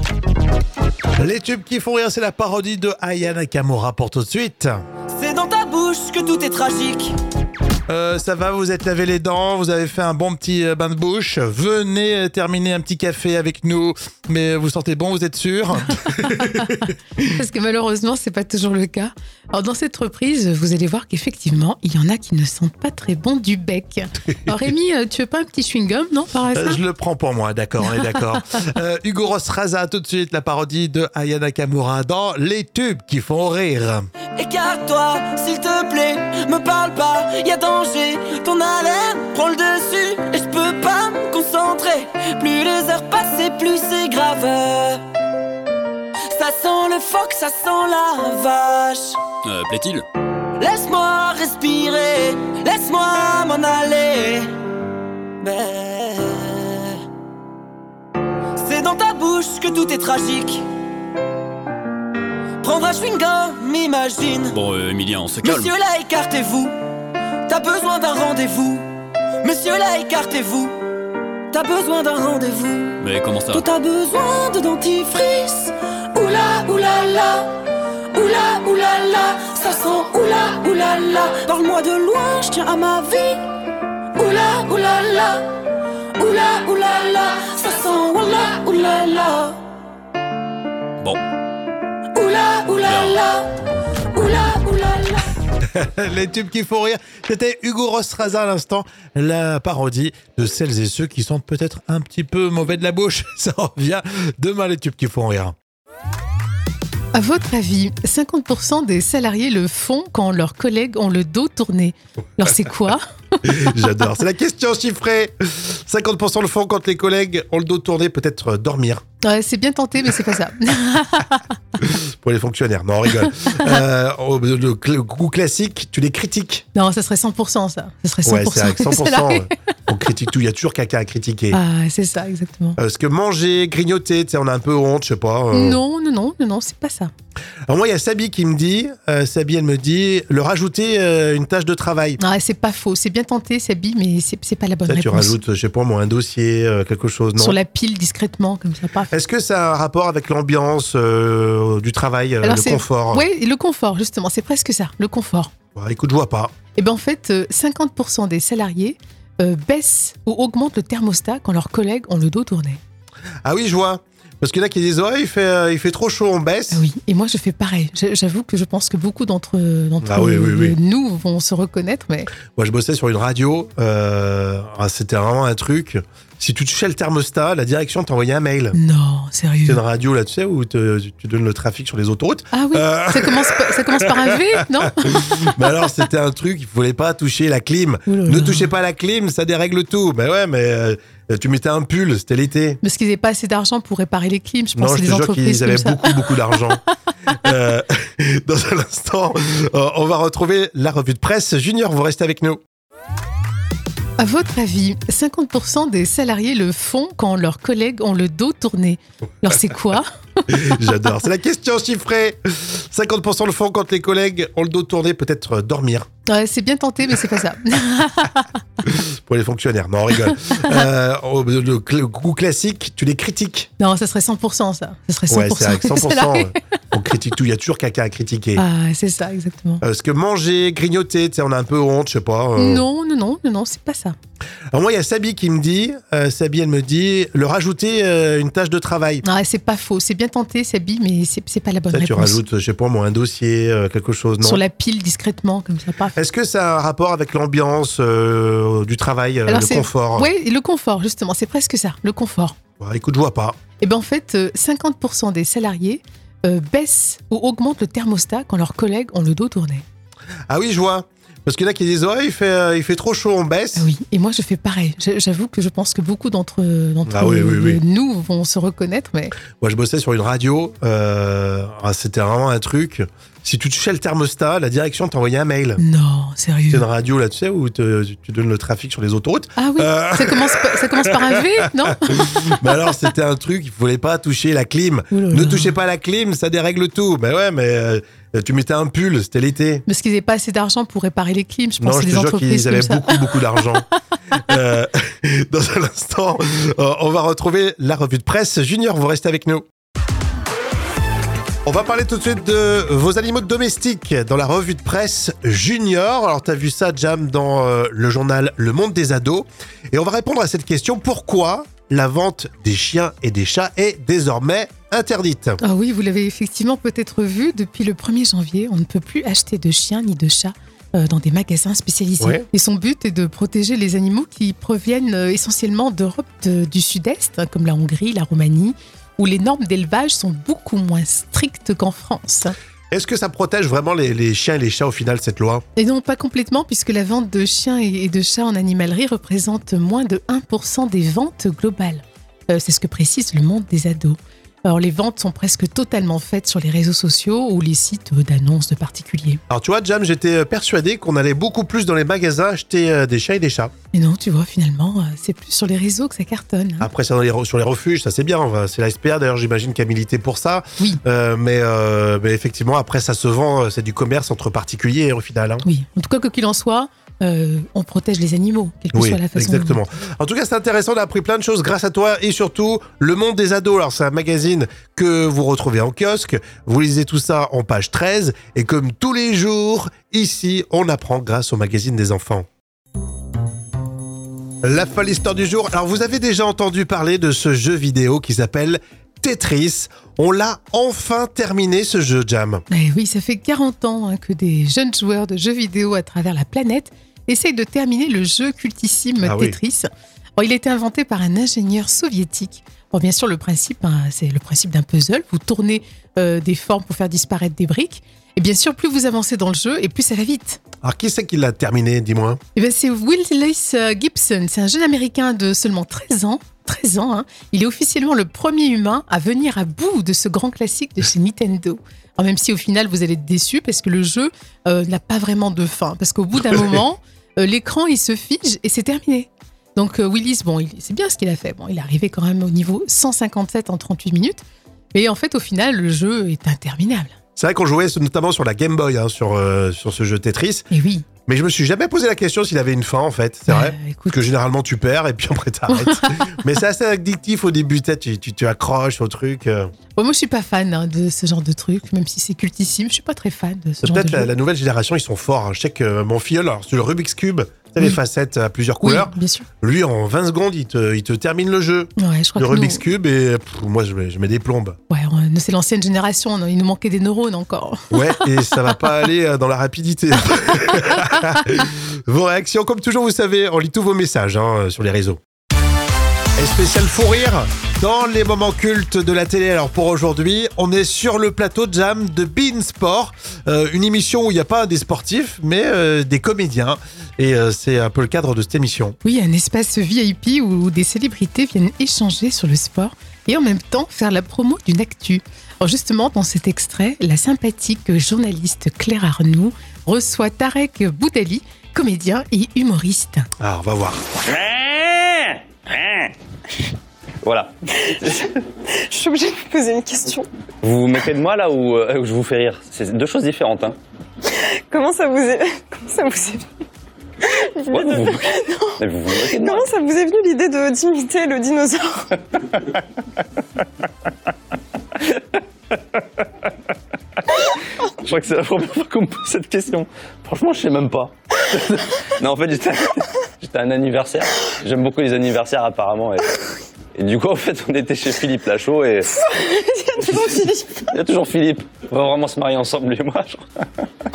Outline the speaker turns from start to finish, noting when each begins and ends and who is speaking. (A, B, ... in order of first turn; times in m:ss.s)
0:01.2-0:04.8 A
0:05.1-0:07.2 B
0:07.9-0:17.3 A
0:16.1-0:26.8 C
0:24.2-0:24.7 A
0:26.5-0:34.1 A
0:34.4-0:45.0 B
0:46.3-0:49.2 B
0:49.4-0:50.0 D
0:50.6-0:54.5 B
0:55.4-0:57.0 B
0:58.6-1:00.7 B
1:02.6-1:04.6 B
1:04.5-1:05.7 D
1:05.4-1:06.7 B
1:07.5-1:08.9 B
1:09.4-1:10.8 B
1:11.5-1:17.6 B
1:13.0-1:13.6 D
1:18.1-1:23.4 B
1:24.2-1:25.6 B
1:26.2-1:29.6 B
1:32.1-1:33.5 B
1:32.8-1:33.2 D
1:34.1-1:35.3 B
1:35.6-1:45.5 A
1:47.1-1:53.8 C
1:53.4-1:59.0 A
1:59.2-2:01.5 C
2:01.8-2:06.6 A
2:03.2-2:03.8 C
2:06.7-2:09.5 C
2:08.2-2:11.6 A
2:11.5-2:12.8 C
2:12.8-2:15.8 A
2:15.5-2:17.1 C
2:17.7-2:22.2 A
2:22.2-2:25.4 C
2:24.9-2:27.6 A
2:27.4-2:29.1 C
2:29.1-2:33.2 A
2:32.4-2:35.5 C
2:35.7-2:36.5 A
2:36.8-2:42.8 C
2:43.4-2:46.8 A
2:46.7-2:52.3 C
2:50.0-2:50.8 A
2:52.5-2:58.8 A
2:58.7-2:59.8 C
2:59.6-3:12.8 A
3:02.5-3:05.5 C
3:08.1-3:08.7 C
3:12.8-3:16.6 C
3:14.8-3:16.8 A
3:17.4-3:22.6 A
3:24.2-3:30.9 C
3:30.5-3:36.1 A
3:36.3-3:38.5 C
3:38.8-3:43.7 A
3:40.3-3:40.8 C
3:43.8-3:46.6 C
3:45.3-3:48.6 A
3:48.6-3:49.8 C
3:49.8-3:52.8 A
3:52.6-3:54.2 C
3:54.7-3:59.2 A
3:59.2-4:02.4 C
4:01.9-4:04.6 A
4:04.4-4:06.2 C
4:06.2-4:10.3 A
4:09.5-4:12.6 C
4:12.8-4:13.6 A
4:13.8-4:19.8 C
4:20.5-4:23.9 A
4:23.8-4:29.3 C
4:27.0-4:27.8 A
4:29.5-4:35.8 A
4:35.8-4:36.8 C
4:36.7-4:49.8 A
4:39.6-4:42.5 C
4:45.1-4:45.7 C
4:49.9-4:53.6 C
4:51.8-4:53.9 A
4:54.4-4:59.6 A
5:01.6-5:15.6 A
5:15.6-5:32.5 C
5:22.2-5:22.4 A
5:32.9-5:35.6 A
5:35.8-5:49.4 C
5:49.5-5:53.7 A
5:53.9-5:56.9 C
5:56.8-6:05.6 A
6:05.6-6:09.8 C
6:08.9-6:22.5 A
6:24.6-6:32.6 A
6:32.7-6:50.6 C
6:39.2-6:39.6 A
6:50.8-6:52.4 A
6:52.5-7:14.4 C
7:14.9-7:17.1 C
7:17.4-7:20.7 A
7:20.7-7:21.1 C
7:21.2-7:29.7 A
7:23.5-7:24.2 C
7:25.7-7:26.4 C
7:30.0-7:34.3 C
7:33.8-7:44.8 A
7:38.8-7:39.5 C
7:42.0-7:42.8 C
7:44.9-7:48.8 C
7:47.9-7:55.2 A
7:56.4-8:09.0 A
8:09.0-8:23.3 C
8:23.4-8:24.0 A
8:24.3-8:26.1 E
8:27.2-8:28.4 E
8:28.7-8:30.3 F
8:30.6-8:33.8 E
8:34.2-8:36.5 F
8:37.2-8:42.1 F
8:37.7-8:39.7 E
8:47.9-8:56.3 E
8:56.9-8:59.1 E
8:59.1-9:00.9 F
9:00.8-9:03.6 E